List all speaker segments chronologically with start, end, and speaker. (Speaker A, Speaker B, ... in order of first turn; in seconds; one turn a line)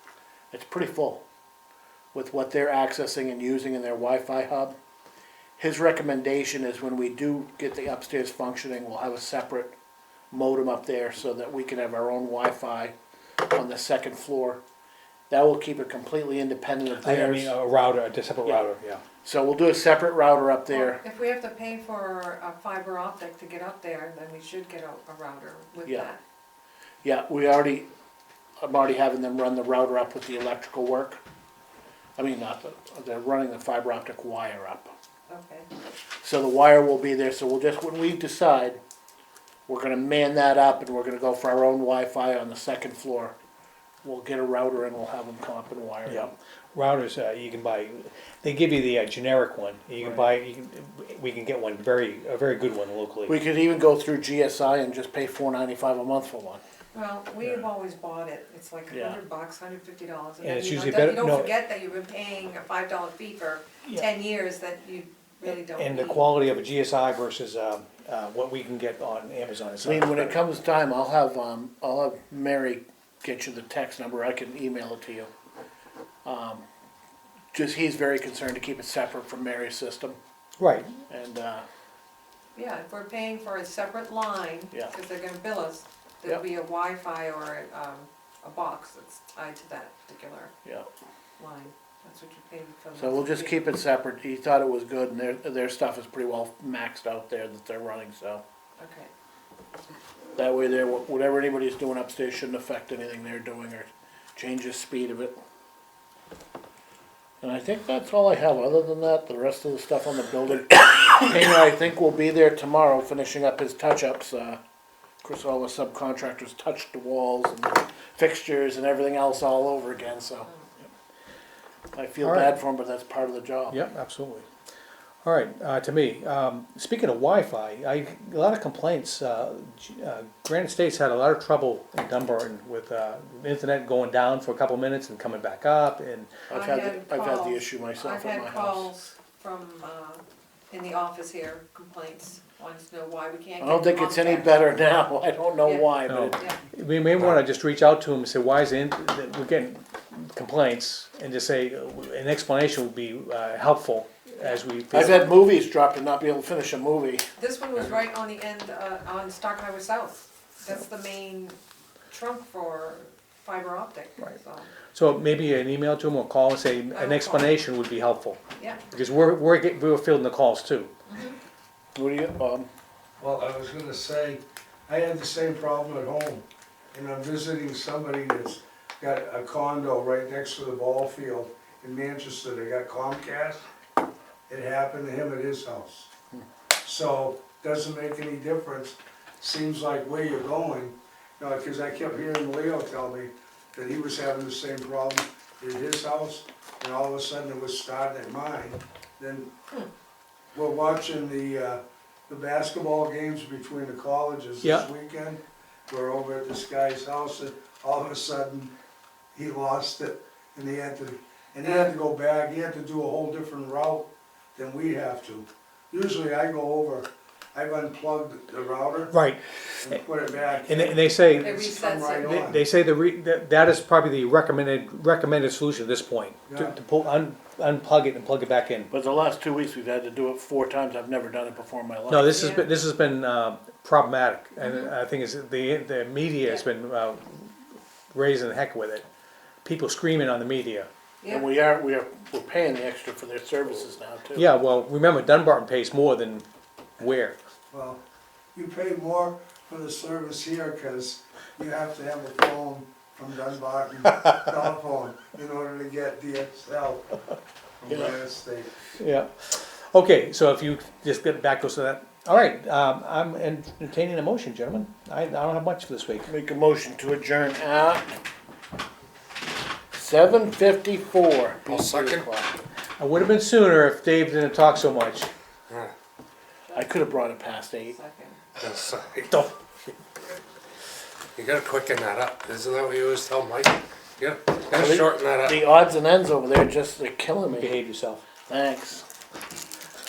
Speaker A: 0.5-1.2
Speaker A: 2.1-4.8
Speaker A: 5.6-9.7
Speaker A: 10.3-12.9
Speaker A: 13.5-14.6
Speaker A: 15.3-17.5
Speaker B: 17.0-19.0
Speaker A: 19.2-21.0
Speaker C: 20.7-26.2
Speaker A: 27.0-27.9
Speaker A: 28.6-31.2
Speaker A: 32.2-34.9
Speaker C: 35.3-35.7
Speaker A: 36.2-38.8
Speaker A: 39.7-43.4
Speaker A: 44.0-46.3
Speaker B: 46.0-53.4
Speaker A: 50.0-50.3
Speaker A: 53.3-56.6
Speaker C: 56.9-66.3
Speaker A: 58.9-59.2
Speaker B: 60.4-61.5
Speaker B: 65.4-70.4
Speaker A: 69.8-75.3
Speaker A: 76.2-76.6
Speaker A: 77.5-80.2
Speaker B: 80.6-81.0
Speaker A: 81.1-81.7
Speaker C: 82.5-90.5
Speaker C: 91.4-93.6
Speaker A: 93.0-98.4
Speaker C: 98.8-99.1
Speaker A: 100.3-105.3
Speaker A: 107.4-114.6
Speaker A: 115.2-120.9
Speaker A: 121.9-123.8
Speaker B: 122.2-122.5
Speaker B: 123.7-124.5
Speaker B: 125.2-136.4
Speaker A: 136.5-138.9
Speaker C: 136.5-144.6
Speaker A: 143.6-146.4
Speaker C: 145.6-146.6
Speaker B: 146.1-155.3
Speaker A: 154.9-157.3
Speaker C: 157.4-161.6
Speaker C: 162.1-164.8
Speaker B: 164.8-170.9
Speaker C: 166.9-167.5
Speaker C: 171.1-171.4
Speaker A: 171.9-172.7
Speaker D: 173.2-183.6
Speaker D: 184.5-186.1
Speaker D: 186.8-199.5
Speaker D: 200.5-208.7
Speaker B: 204.6-204.9
Speaker D: 209.3-219.1
Speaker B: 219.1-220.0
Speaker D: 219.8-222.6
Speaker B: 220.7-221.5
Speaker C: 221.4-222.3
Speaker B: 222.2-228.9
Speaker D: 226.5-226.8
Speaker A: 228.9-232.5
Speaker B: 232.1-237.6
Speaker C: 232.3-232.7
Speaker C: 234.6-234.9
Speaker B: 238.1-239.1
Speaker B: 239.6-240.9
Speaker A: 241.3-244.5
Speaker B: 244.3-246.4
Speaker B: 247.0-247.4
Speaker D: 247.7-248.0
Speaker D: 248.5-257.2
Speaker D: 257.8-258.8
Speaker B: 259.0-266.3
Speaker A: 266.2-268.1
Speaker A: 269.9-272.5
Speaker E: 271.7-272.2
Speaker B: 273.0-275.3
Speaker C: 276.7-276.9
Speaker A: 276.7-277.9
Speaker C: 277.9-278.4
Speaker E: 278.6-279.2
Speaker B: 279.2-279.9
Speaker E: 281.4-285.7
Speaker A: 284.7-287.8
Speaker B: 287.5-288.3
Speaker A: 288.4-289.1